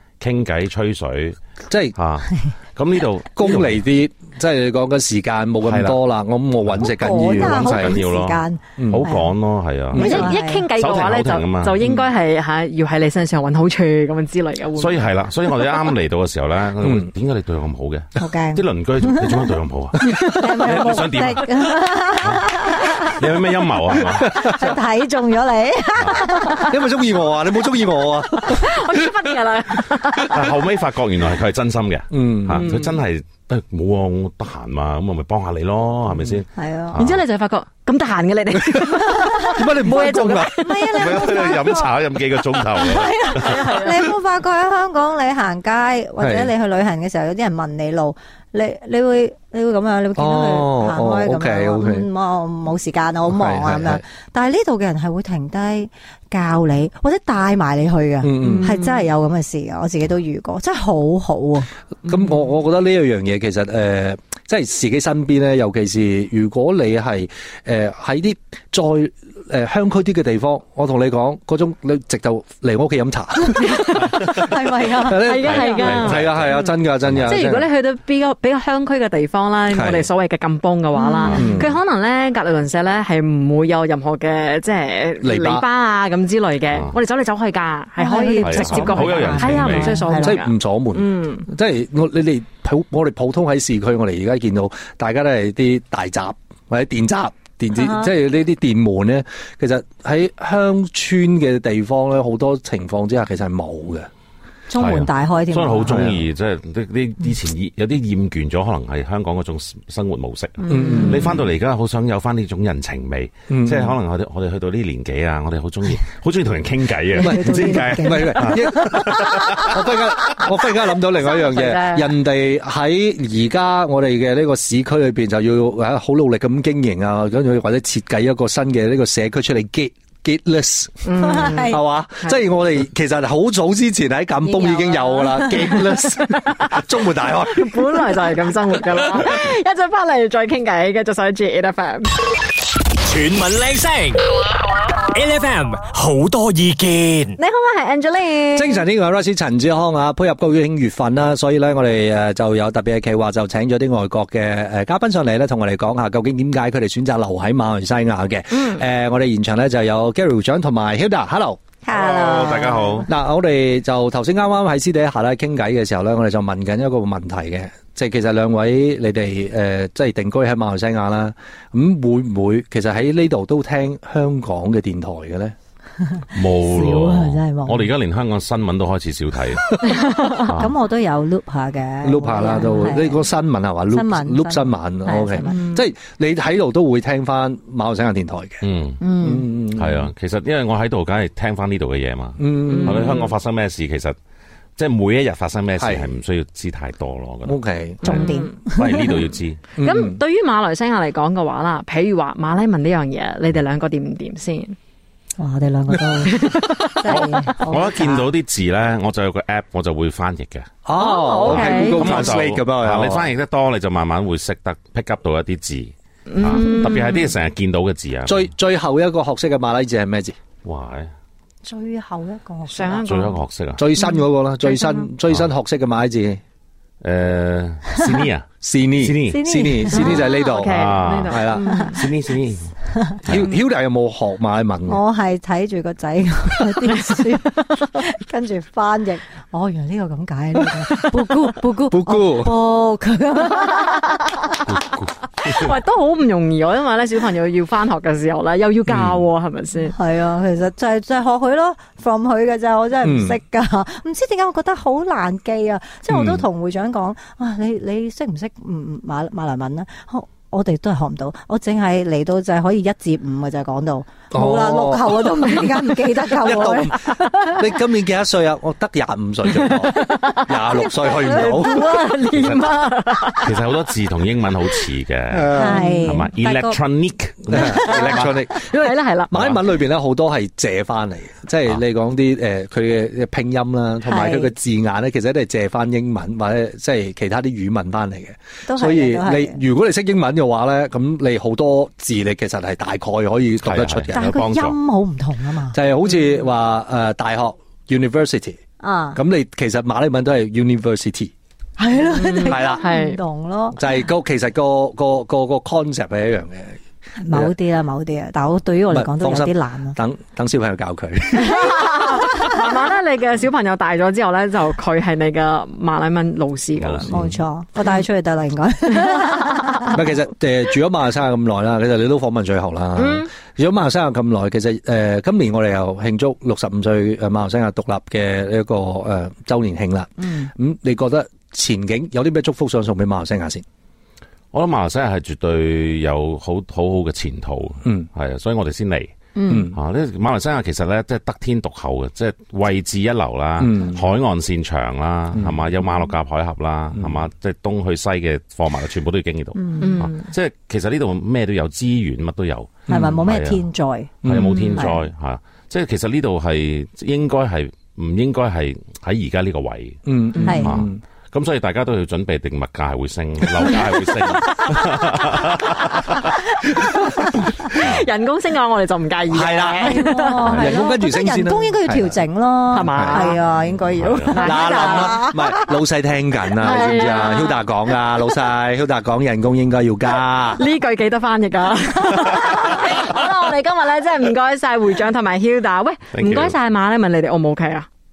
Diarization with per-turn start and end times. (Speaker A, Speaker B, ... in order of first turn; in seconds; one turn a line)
Speaker A: 0.2-1.4
Speaker B: 1.7-1.9
Speaker A: 1.9-3.8
Speaker B: 3.4-8.0
Speaker A: 5.6-6.0
Speaker A: 6.6-11.9
Speaker C: 6.8-9.3
Speaker B: 8.8-9.1
Speaker C: 9.9-10.7
Speaker D: 10.0-15.1
Speaker A: 14.8-24.5
Speaker B: 16.8-17.1
Speaker C: 18.2-19.5
Speaker C: 20.0-23.2
Speaker B: 24.1-24.6
Speaker C: 24.2-26.8
Speaker A: 26.0-26.3
Speaker B: 26.6-29.1
Speaker D: 28.4-30.4
Speaker A: 30.3-37.2
Speaker B: 32.1-32.7
Speaker D: 32.5-33.0
Speaker C: 36.5-37.0
Speaker D: 37.0-40.7
Speaker B: 38.5-41.0
Speaker C: 40.6-41.9
Speaker A: 40.9-43.6
Speaker C: 42.5-61.7
Speaker D: 43.3-44.1
Speaker B: 46.2-46.5
Speaker B: 50.1-52.1
Speaker B: 53.3-54.0
Speaker B: 58.2-58.9
Speaker D: 58.4-59.0
Speaker B: 62.0-77.7
Speaker C: 73.5-76.0
Speaker D: 75.1-76.7
Speaker A: 75.4-77.3
Speaker D: 77.2-91.5
Speaker B: 79.7-80.0
Speaker C: 80.9-81.6
Speaker A: 81.2-81.6
Speaker B: 81.3-81.7
Speaker B: 85.2-85.6
Speaker C: 88.0-90.4
Speaker A: 88.4-90.0
Speaker B: 90.2-104.1
Speaker C: 97.8-98.1
Speaker C: 104.7-106.1
Speaker A: 104.8-119.8
Speaker B: 105.9-106.2
Speaker C: 110.6-111.3
Speaker B: 110.7-111.3
Speaker D: 110.8-111.2
Speaker B: 113.5-114.0
Speaker B: 117.1-138.1
Speaker C: 117.1-119.7
Speaker D: 121.0-122.1
Speaker D: 131.1-132.4
Speaker C: 131.2-131.8
Speaker C: 134.4-136.0
Speaker D: 137.3-142.1
Speaker E: 143.0-144.2
Speaker E: 145.1-147.3
Speaker D: 147.4-148.8
Speaker B: 148.5-161.6
Speaker C: 161.8-163.1
Speaker A: 161.9-163.1
Speaker B: 163.1-175.5
Speaker C: 176.0-177.9
Speaker A: 176.3-180.7
Speaker D: 179.8-180.2
Speaker C: 180.1-183.3
Speaker B: 182.0-190.1
Speaker C: 183.9-185.8
Speaker D: 185.4-185.8
Speaker A: 188.6-189.0
Speaker C: 189.0-189.5
Speaker A: 189.7-194.1
Speaker B: 192.4-193.2
Speaker D: 192.7-193.3
Speaker A: 194.8-199.6
Speaker B: 195.8-196.1
Speaker B: 197.4-198.2
Speaker D: 198.0-198.5
Speaker C: 198.0-199.2
Speaker B: 199.8-200.2
Speaker D: 199.8-204.8
Speaker C: 205.4-208.3
Speaker D: 206.4-206.9
Speaker A: 207.0-210.7
Speaker B: 210.8-213.3
Speaker D: 210.9-212.3
Speaker A: 211.4-218.5
Speaker D: 216.3-217.3
Speaker C: 216.4-217.2
Speaker B: 218.2-220.4
Speaker A: 220.6-221.1
Speaker C: 221.6-223.2
Speaker D: 222.7-223.4
Speaker A: 223.1-223.8
Speaker B: 223.8-226.4
Speaker C: 224.7-225.0
Speaker A: 227.0-232.7
Speaker B: 228.6-231.9
Speaker C: 229.2-230.2
Speaker D: 229.9-232.0
Speaker C: 231.7-231.9
Speaker C: 232.9-233.2
Speaker B: 233.2-235.0
Speaker C: 234.9-244.6
Speaker B: 241.9-242.6
Speaker A: 244.7-245.6
Speaker D: 245.4-249.9
Speaker C: 249.9-267.6
Speaker B: 253.0-253.4
Speaker B: 256.1-256.4
Speaker B: 264.3-271.8
Speaker D: 269.6-273.5
Speaker A: 272.3-272.6
Speaker A: 273.4-278.3
Speaker B: 275.3-276.1
Speaker C: 275.5-276.8
Speaker B: 277.5-294.2
Speaker D: 278.6-279.3
Speaker C: 284.1-284.5
Speaker C: 288.7-289.6
Speaker A: 293.6-294.8
Speaker C: 294.1-295.8
Speaker B: 295.7-298.6
Speaker C: 298.8-299.2
Speaker B: 299.1-301.3
Speaker C: 301.8-303.8
Speaker D: 302.1-303.2
Speaker B: 302.4-302.9
Speaker B: 303.8-306.8
Speaker C: 307.2-310.0
Speaker B: 308.9-311.9
Speaker D: 311.4-317.2
Speaker A: 316.8-317.4
Speaker C: 317.1-320.0
Speaker B: 319.9-333.6
Speaker D: 323.0-323.3
Speaker A: 334.5-339.1
Speaker C: 339.4-339.7
Speaker B: 339.5-339.8
Speaker A: 339.7-353.6
Speaker B: 343.6-344.0
Speaker C: 349.6-350.0
Speaker D: 349.8-350.3
Speaker B: 352.9-353.2
Speaker C: 352.9-355.0
Speaker B: 354.2-354.8
Speaker A: 354.2-366.3
Speaker B: 360.1-361.0
Speaker D: 360.3-360.6
Speaker C: 360.4-360.7
Speaker D: 367.6-370.4
Speaker A: 367.7-368.0
Speaker B: 369.3-372.2
Speaker C: 369.8-375.8
Speaker A: 370.4-370.8
Speaker D: 372.7-373.4
Speaker B: 372.8-373.3
Speaker A: 373.7-374.4
Speaker D: 374.3-375.3
Speaker B: 374.4-380.6
Speaker D: 376.6-377.6
Speaker D: 380.6-387.9
Speaker A: 386.1-386.5